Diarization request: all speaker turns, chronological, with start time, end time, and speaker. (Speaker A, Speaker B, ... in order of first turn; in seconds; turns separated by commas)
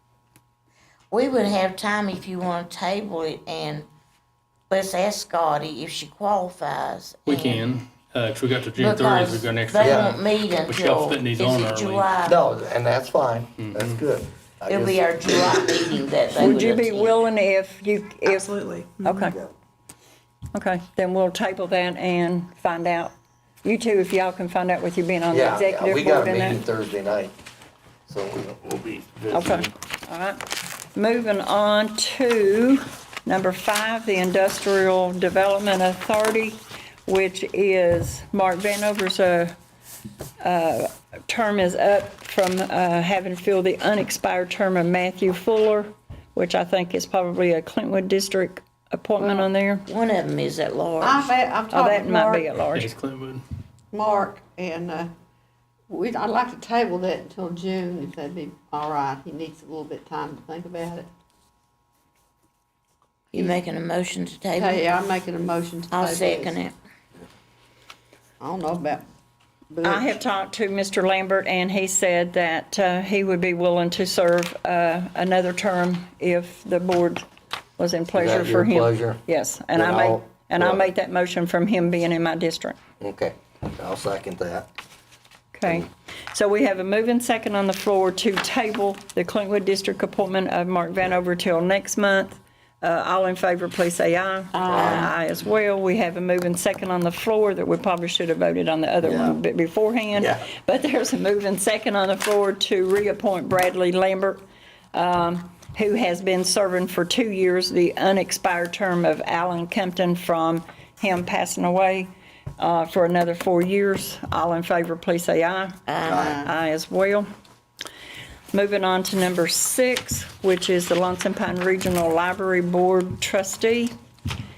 Speaker A: 1.1-3.9, Speaker A: 4.7-7.6, Speaker B: 7.2-12.1, Speaker A: 8.8-12.4, Speaker C: 9.8-10.1, Speaker C: 12.2-15.9, Speaker B: 13.6-14.0, Speaker A: 14.7-17.1, Speaker D: 16.4-19.4, Speaker D: 20.5-23.1, Speaker D: 23.6-26.6, Speaker C: 25.3-27.3, Speaker C: 28.1-29.7, Speaker D: 29.3-30.4, Speaker D: 30.9-39.5, Speaker D: 40.4-49.8, Speaker E: 49.2-49.5, Speaker A: 49.9-51.2, Speaker E: 51.0-52.5, Speaker D: 51.7-52.9, Speaker B: 52.7-53.4, Speaker E: 53.9-55.1, Speaker E: 55.9-61.1, Speaker A: 63.3-64.7, Speaker E: 63.3-63.6, Speaker E: 64.5-66.7, Speaker A: 65.9-66.7, Speaker E: 68.4-69.0, Speaker E: 69.7-70.2, Speaker D: 69.8-77.2, Speaker D: 77.8-82.8, Speaker C: 78.1-79.2, Speaker C: 79.7-80.8, Speaker C: 83.0-84.7, Speaker D: 85.5-104.4, Speaker E: 94.5-95.1, Speaker C: 94.7-95.1, Speaker C: 99.0-99.3, Speaker C: 100.2-100.4, Speaker D: 104.9-115.8, Speaker A: 115.9-116.3, Speaker E: 116.2-116.5, Speaker D: 116.4-117.3, Speaker D: 118.5-123.9